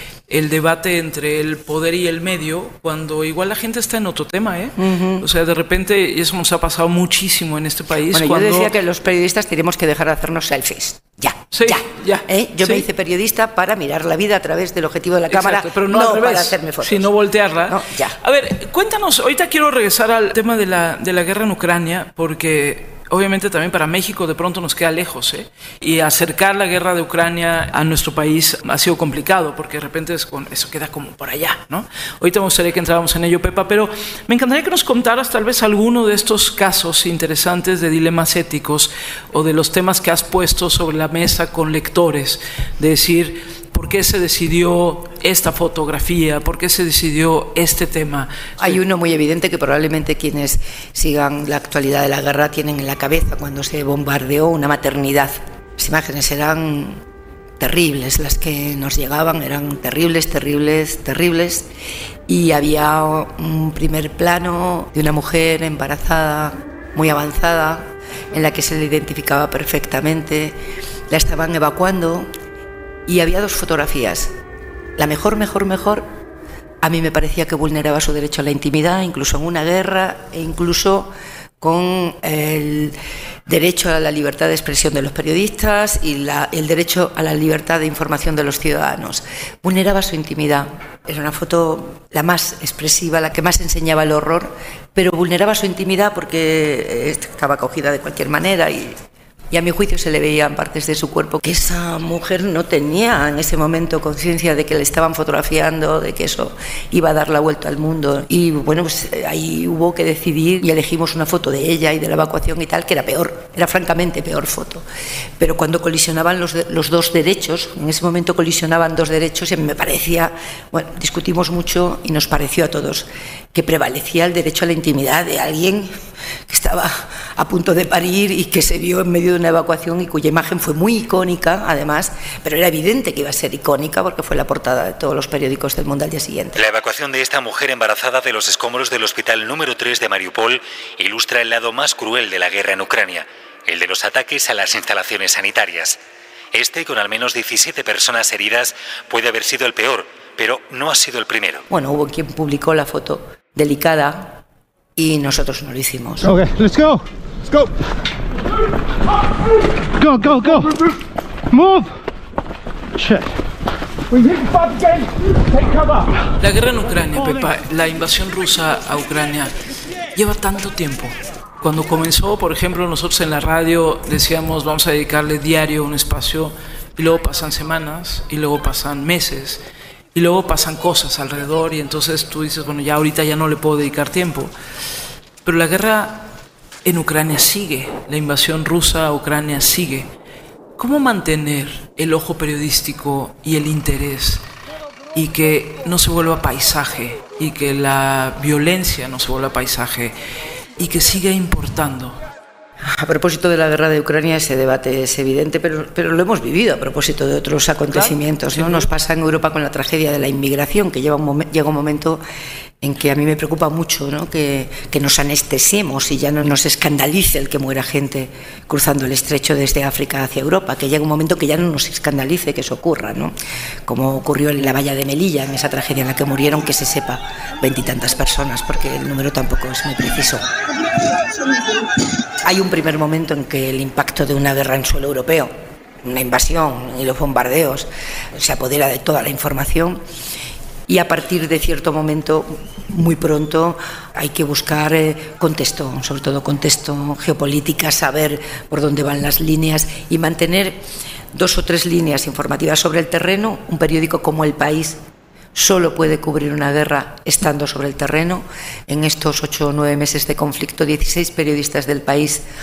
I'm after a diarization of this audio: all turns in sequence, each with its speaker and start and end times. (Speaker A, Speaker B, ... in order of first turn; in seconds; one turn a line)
Speaker A: 0.3-8.7
Speaker B: 4.8-5.2
Speaker B: 8.1-17.1
Speaker A: 11.5-12.8
Speaker A: 15.3-48.8
Speaker B: 17.6-18.1
Speaker B: 48.6-57.0
Speaker B: 57.6-61.6
Speaker B: 62.3-70.6
Speaker B: 71.1-72.3
Speaker B: 73.1-74.3
Speaker B: 75.0-76.1
Speaker B: 76.8-82.9
Speaker B: 83.5-99.0
Speaker B: 99.5-114.8
Speaker B: 115.4-125.9
Speaker B: 126.5-136.6
Speaker C: 136.5-146.0
Speaker C: 146.5-151.6
Speaker B: 151.7-154.4
Speaker B: 154.9-156.3
Speaker D: 156.2-157.7
Speaker D: 160.0-160.8
Speaker D: 161.5-161.9
Speaker D: 163.0-163.3
Speaker A: 166.4-169.5
Speaker A: 170.1-179.6
Speaker A: 180.1-184.5
Speaker A: 185.4-186.3
Speaker A: 186.8-190.1
Speaker A: 190.8-194.4
Speaker A: 195.1-200.2
Speaker A: 200.8-202.2
Speaker B: 202.9-212.2
Speaker A: 207.9-208.9
Speaker B: 212.8-223.3
Speaker B: 223.9-230.4
Speaker B: 232.4-235.5
Speaker B: 236.0-240.0
Speaker B: 240.9-250.8
Speaker B: 251.3-255.0
Speaker B: 255.5-262.4